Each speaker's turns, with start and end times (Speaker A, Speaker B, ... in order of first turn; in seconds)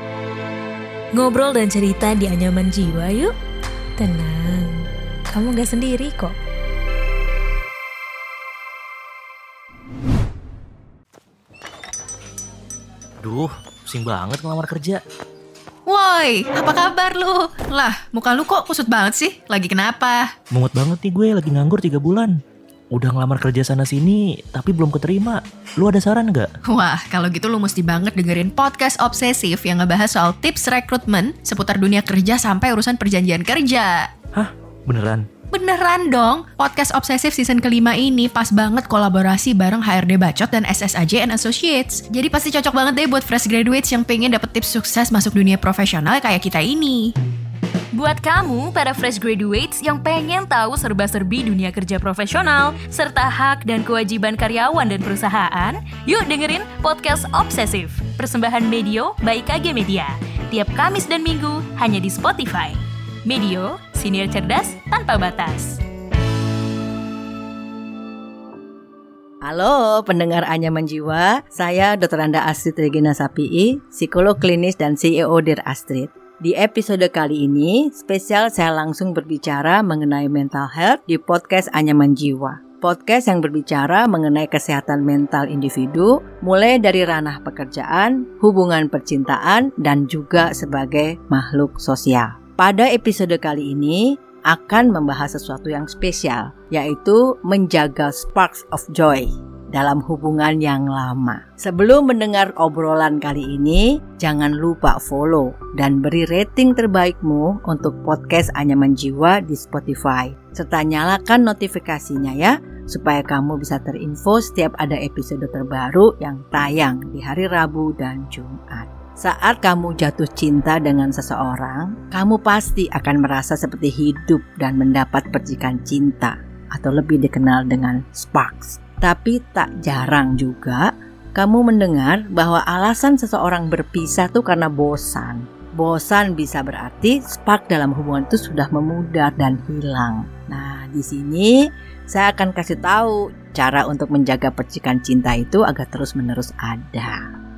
Speaker A: 1.2-3.3, 4.0-6.3, 47.9-65.8
Speaker B: 13.2-15.0, 20.5-22.4, 22.9-26.5, 34.3-35.2
Speaker C: 15.8-20.3, 26.6-34.1, 35.5-47.1
Speaker D: 69.5-147.2